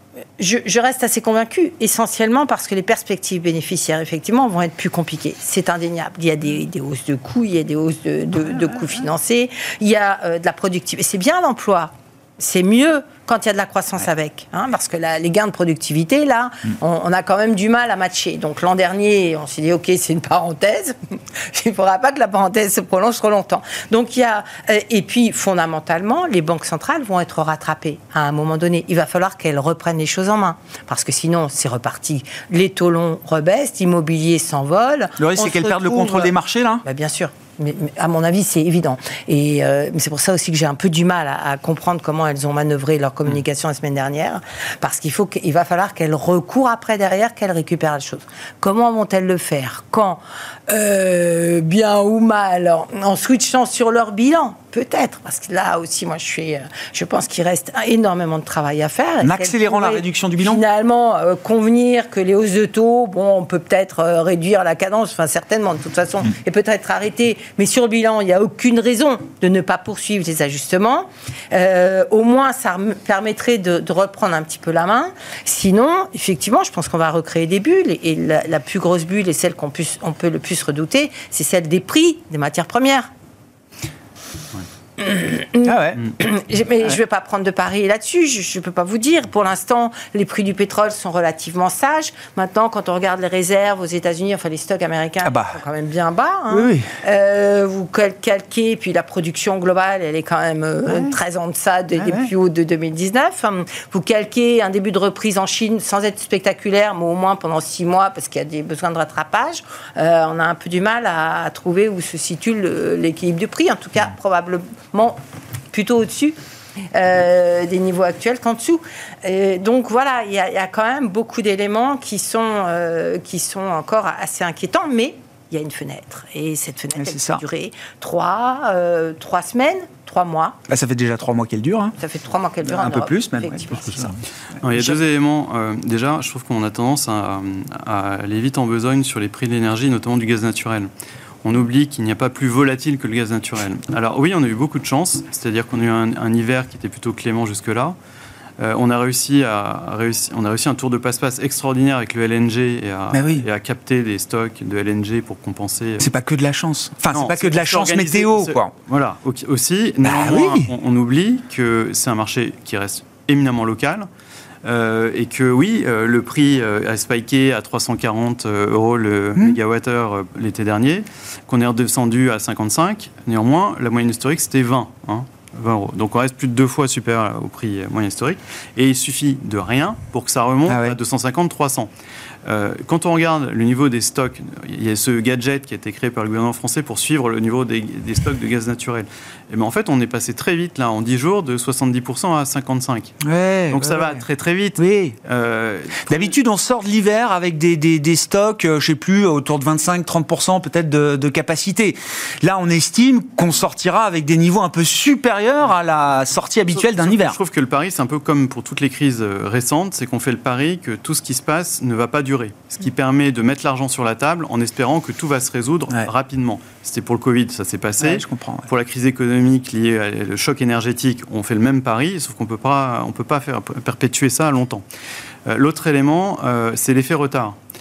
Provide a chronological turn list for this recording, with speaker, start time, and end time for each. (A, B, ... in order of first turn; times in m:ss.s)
0:00.4-0:36.3 A
0:35.2-0:36.8 B
0:36.8-1:23.1 A
0:59.2-1:00.6 B
1:25.0-1:55.2 A
1:25.7-1:26.0 B
1:35.2-1:35.6 B
1:36.5-1:36.9 B
1:40.9-1:41.1 B
1:42.0-1:42.3 B
1:55.7-1:56.4 A
1:56.9-2:10.6 A
2:07.0-2:07.4 B
2:10.7-2:12.0 B
2:12.0-2:14.0 A
2:12.7-2:15.0 B
2:14.6-2:20.9 C
2:21.4-2:28.0 C
2:28.6-2:36.1 C
2:33.1-2:33.5 B
2:36.0-2:38.7 B
2:37.1-2:44.1 C
2:40.0-2:40.7 B
2:44.6-3:01.9 C
3:00.7-3:01.0 B
3:02.4-3:13.2 C
3:13.2-3:14.2 B
3:13.7-3:16.4 C
3:14.8-3:15.2 B
3:16.1-3:27.4 B
3:26.7-3:44.8 C
3:38.0-3:38.7 B
3:45.5-3:47.6 C